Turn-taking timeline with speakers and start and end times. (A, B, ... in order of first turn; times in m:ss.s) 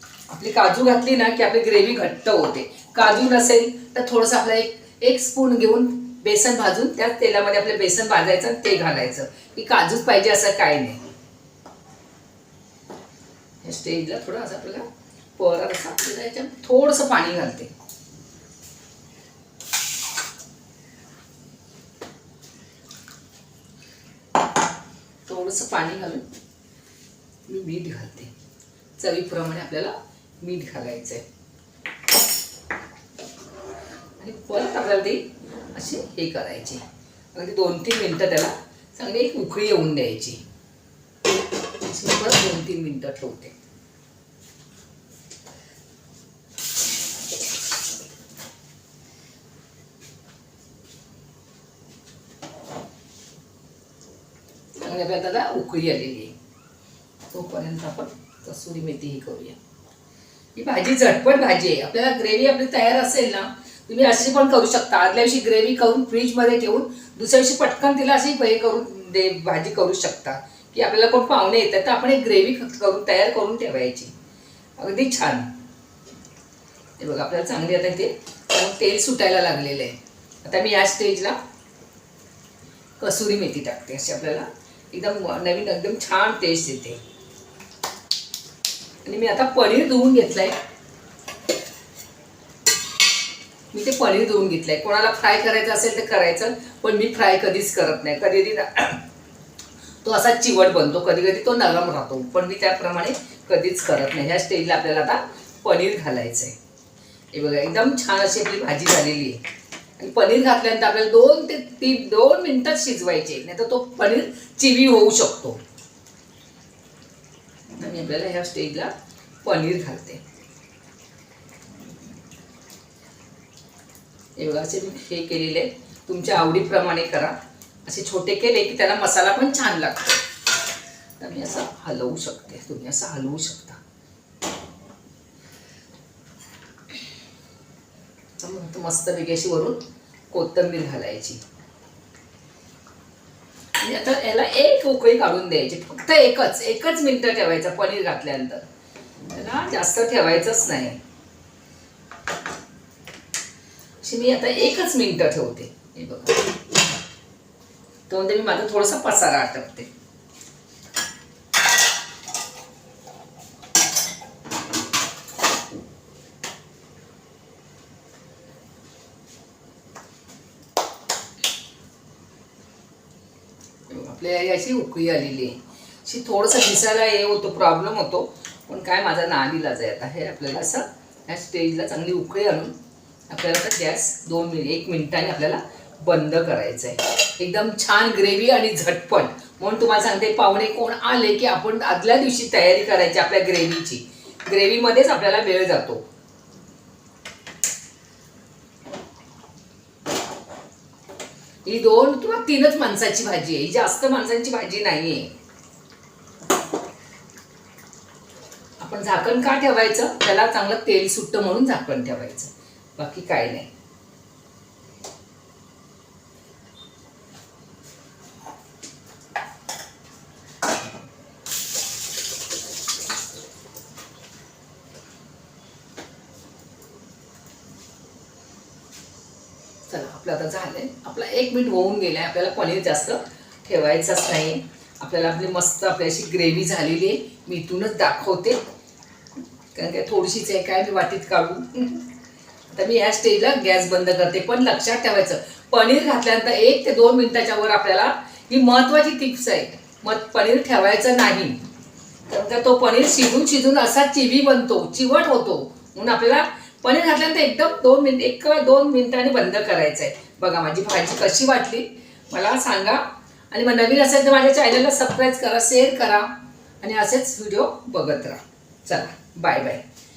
0:00.3-0:11.0 A
0:13.6-0:17.7 A
0:25.2-0:26.2 A
0:27.5-0:28.3 A
0:29.0-0:31.2 A
0:34.2-0:40.4 A
0:41.8-0:43.5 A
0:54.8-0:56.3 A
0:57.3-0:59.6 A
1:00.6-1:14.1 A
1:14.8-1:15.5 A
1:17.0-1:21.4 A
1:23.0-1:27.0 A
1:29.0-1:30.6 A
1:33.7-1:39.0 A
1:40.0-1:46.6 A
1:47.3-1:49.4 A
1:50.0-1:55.6 A
1:57.8-1:58.9 A
1:59.4-2:00.2 A
2:04.4-2:10.2 A
2:11.2-2:13.8 A
2:18.4-2:21.4 A
2:23.8-2:28.6 A
2:29.3-2:31.0 A
2:34.0-2:36.5 A
2:38.1-2:39.9 A
2:53.9-3:02.7 A
3:03.3-3:16.0 A
3:21.6-3:25.4 A
3:28.8-3:33.7 A
3:49.9-3:58.6 A
3:59.7-4:02.1 A
4:02.7-4:11.6 A
4:12.3-4:26.3 A
4:26.8-4:29.8 A